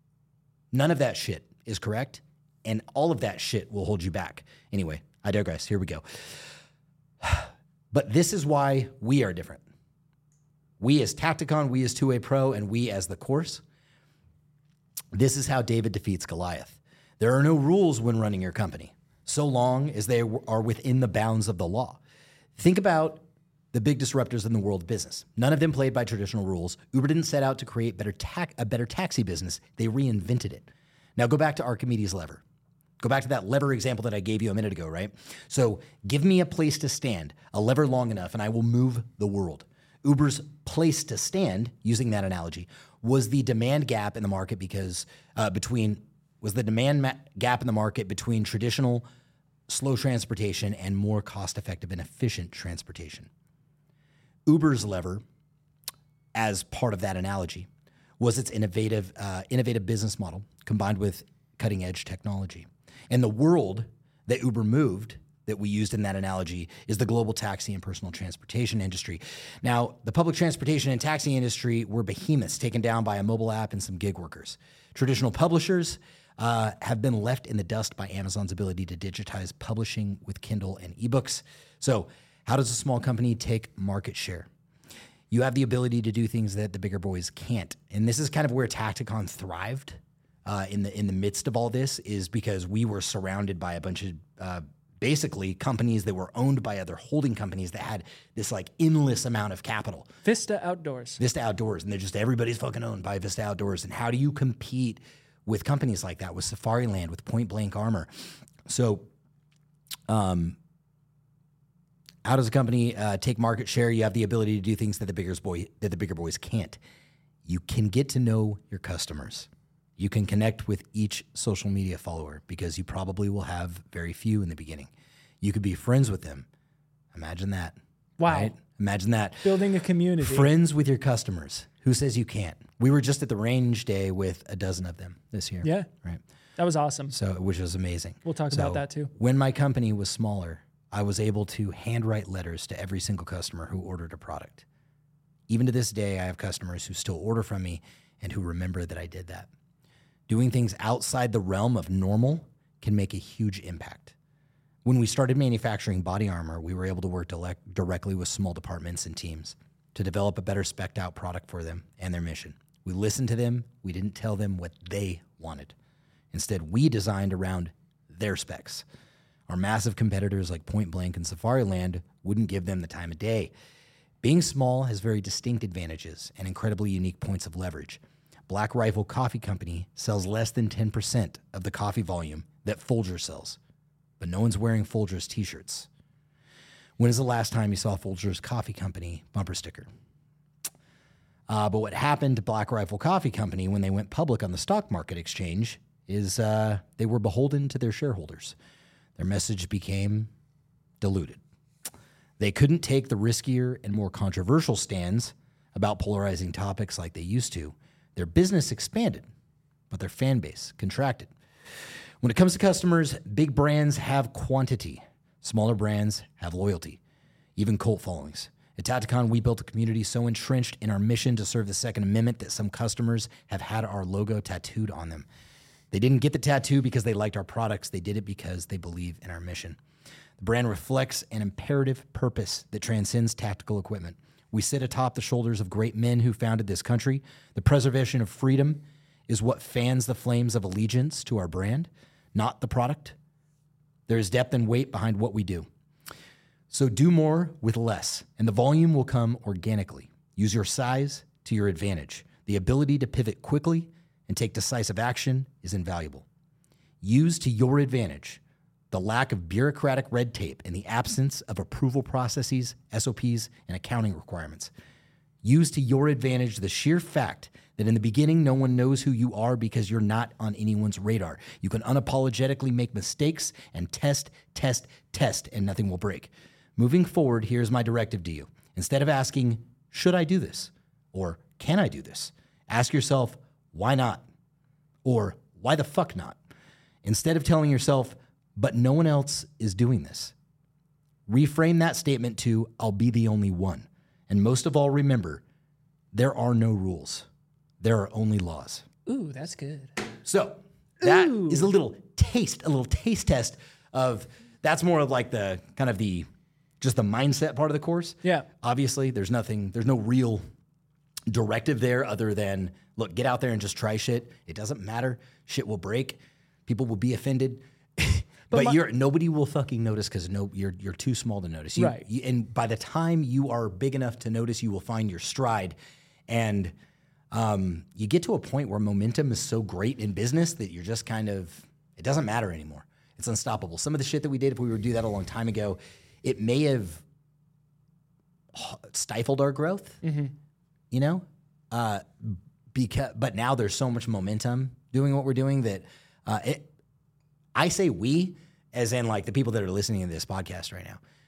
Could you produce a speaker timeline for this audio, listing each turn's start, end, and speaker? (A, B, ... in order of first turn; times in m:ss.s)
0:00.7-0:06.0 A
0:07.2-0:09.6 A
0:10.8-0:13.6 A
0:15.1-0:22.0 A
0:22.6-0:32.4 A
0:33.0-0:49.0 A
0:49.7-0:53.3 A
0:54.5-0:55.2 A
0:56.3-0:57.7 A
0:58.2-1:24.5 A
1:25.3-1:40.1 A
1:40.2-1:41.2 B
1:41.2-1:48.1 A
1:48.6-1:49.1 A
1:50.1-1:50.6 A
1:52.2-1:56.8 A
1:57.4-2:04.9 A
2:05.4-2:06.4 A
2:07.1-2:09.5 A
2:08.2-2:08.5 B
2:09.4-2:10.5 B
2:10.2-2:16.2 A
2:15.6-2:15.9 B
2:16.6-2:17.1 B
2:17.1-2:24.6 A
2:18.2-2:19.1 B
2:25.5-2:29.5 A
2:30.3-2:34.1 A
2:34.8-2:45.7 A
2:46.3-2:48.8 A
2:49.5-2:53.5 A
2:54.2-3:03.6 A
3:04.2-3:05.9 A
3:07.0-3:09.9 A
3:11.5-3:18.5 A
3:19.2-3:20.3 A
3:21.0-3:21.4 A
3:22.4-3:29.3 A
3:29.9-3:31.3 A
3:32.2-3:37.0 A
3:37.6-3:45.3 A
3:45.9-3:49.8 A
3:50.4-4:03.2 A
4:04.1-4:05.7 A
4:06.7-4:16.2 A
4:17.0-4:24.7 A
4:25.4-4:44.2 A
4:45.0-4:46.4 A
4:47.0-4:50.3 A
4:51.3-4:55.4 A
4:56.1-4:57.2 A
4:57.8-4:58.8 A
4:59.0-4:59.9 B
5:00.2-5:06.2 A
5:01.0-5:01.7 B
5:06.8-5:10.4 A
5:11.3-5:25.7 A
5:18.5-5:18.8 B
5:21.8-5:22.0 B
5:26.3-5:26.7 A
5:27.3-5:37.0 A
5:38.5-5:40.0 A
5:40.0-5:40.3 B
5:40.9-5:46.7 A
5:47.5-5:51.0 A